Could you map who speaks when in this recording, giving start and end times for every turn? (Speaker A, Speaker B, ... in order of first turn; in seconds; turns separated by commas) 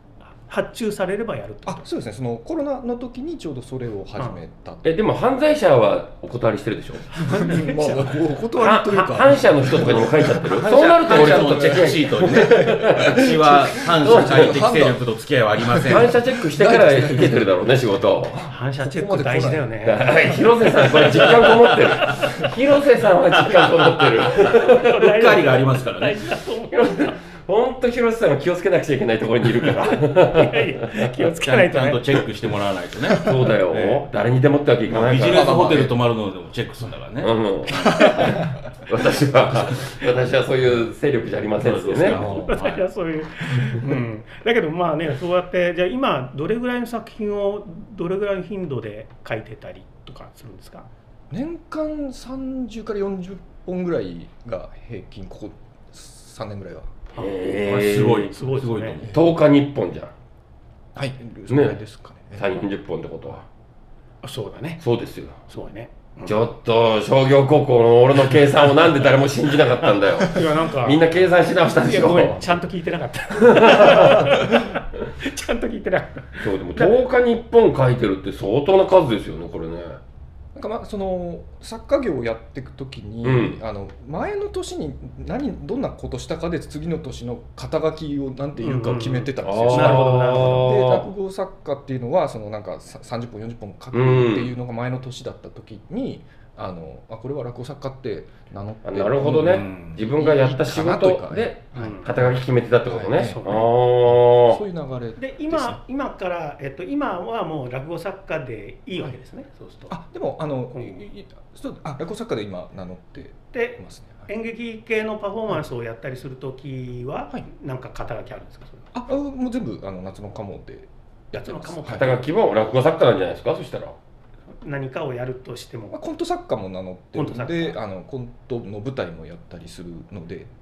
Speaker A: 0.4-1.9, Speaker B: 1.6-4.8, Speaker C: 4.8-7.9, Speaker B: 7.2-15.0, Speaker C: 8.6-14.6, Speaker D: 10.4-16.2, Speaker B: 15.6-17.7, Speaker C: 15.9-18.5, Speaker B: 18.4-20.3, Speaker A: 18.5-21.5, Speaker C: 19.8-24.9, Speaker A: 22.0-22.3, Speaker D: 23.5-26.2, Speaker A: 24.5-27.2, Speaker C: 26.7-31.1, Speaker A: 29.9-32.0, Speaker D: 31.4-34.1, Speaker C: 33.2-35.8, Speaker D: 34.9-37.3, Speaker B: 35.2-36.0, Speaker C: 37.2-42.2, Speaker B: 37.8-38.5, Speaker D: 41.6-42.8, Speaker B: 42.1-42.5, Speaker A: 42.2-50.9, Speaker B: 51.3-56.9, Speaker C: 57.2-58.3, Speaker D: 57.6-59.2, Speaker A: 58.3-59.0, Speaker C: 59.0-60.1, Speaker B: 60.9-62.4, Speaker C: 61.5-61.8, Speaker C: 62.4-63.4, Speaker A: 64.2-64.8, Speaker C: 64.8-65.4, Speaker A: 65.5-66.4, Speaker C: 66.2-72.5, Speaker A: 70.3-71.0, Speaker A: 71.8-76.9, Speaker C: 73.4-74.5, Speaker C: 76.4-80.0, Speaker B: 80.5-102.3, Speaker C: 83.2-83.6, Speaker A: 88.6-90.7, Speaker C: 89.4-91.1, Speaker C: 93.9-94.5, Speaker C: 98.8-104.6, Speaker D: 99.3-100.0, Speaker A: 101.8-102.0, Speaker B: 102.9-105.8, Speaker A: 103.2-103.6, Speaker A: 105.2-109.9, Speaker B: 109.9-114.3, Speaker A: 110.7-111.0, Speaker A: 113.5-118.8, Speaker B: 118.9-122.2, Speaker A: 121.4-122.2, Speaker C: 121.9-123.9, Speaker A: 124.6-126.0, Speaker B: 125.9-130.5, Speaker A: 127.1-127.8